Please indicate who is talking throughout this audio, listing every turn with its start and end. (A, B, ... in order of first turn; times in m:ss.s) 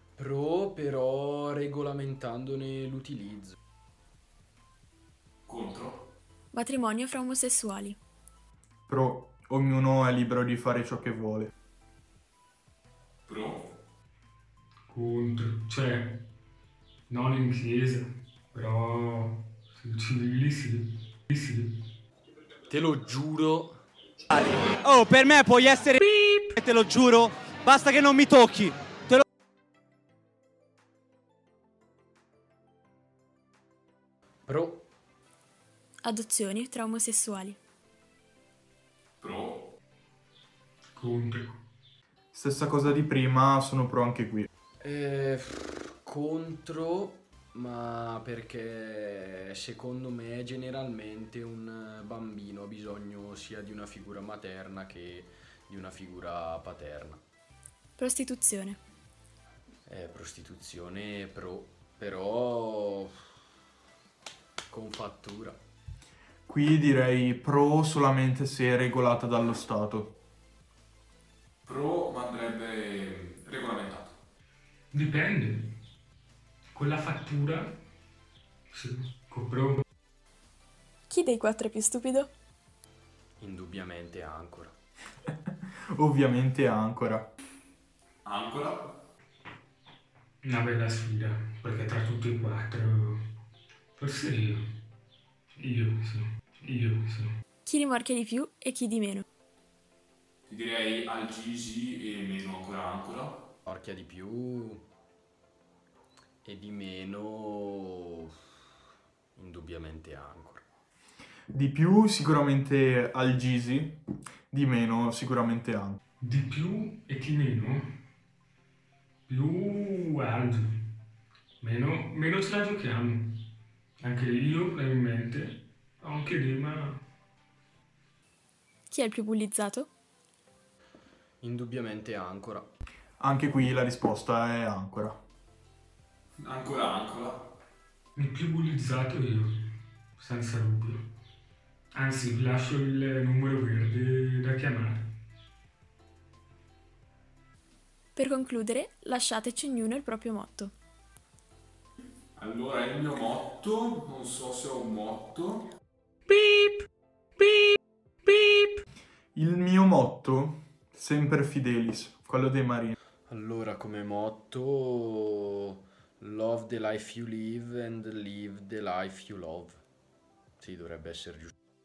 0:00.2-0:03.6 A
0:05.4-0:06.1 B
0:06.5-0:08.0 C
0:08.9-0:11.5 D
0:13.2-0:13.7 B
0:14.9-0:16.2 E
0:17.1-0:21.8 E
0:22.7-0:23.8 A
0:24.3-0:26.0 F
0:26.0-0:26.6 E
0:26.6-0:29.2 F
0:34.4-0:34.9 A
0:36.0-0:37.6 C
0:39.2-0:39.7 B
0:40.9-0:41.6 E
0:42.3-0:44.5 D
0:44.8-0:57.2 A
0:58.0-0:58.8 C
0:59.9-1:03.1 A
1:04.7-1:05.6 A
1:06.5-1:10.1 D
1:11.6-1:14.2 B
1:14.9-1:15.8 E
1:16.7-1:17.8 E
1:18.7-1:19.8 E
1:21.1-1:22.3 C
1:23.4-1:24.8 A
1:25.9-1:27.3 D
1:28.2-1:29.0 B
1:30.4-1:33.2 E
1:34.0-1:34.6 E
1:35.6-1:37.3 E
1:37.6-1:39.2 C
1:40.4-1:43.5 B
1:43.6-1:44.8 A
1:46.4-1:48.3 A
1:49.4-1:50.6 A
1:51.5-1:56.0 D
1:56.2-1:58.0 E
1:59.3-2:00.9 E
2:01.6-2:07.0 E
2:08.9-2:09.9 C
2:11.4-2:12.7 A
2:13.2-2:15.2 D
2:16.4-2:17.6 B
2:18.1-2:19.6 E
2:20.2-2:21.1 E
2:21.9-2:25.2 E
2:28.2-2:30.7 C
2:32.4-2:35.7 B
2:36.3-2:36.9 E
2:37.4-2:38.8 E
2:39.3-2:42.9 D
2:43.3-2:49.8 A
2:50.6-2:51.5 A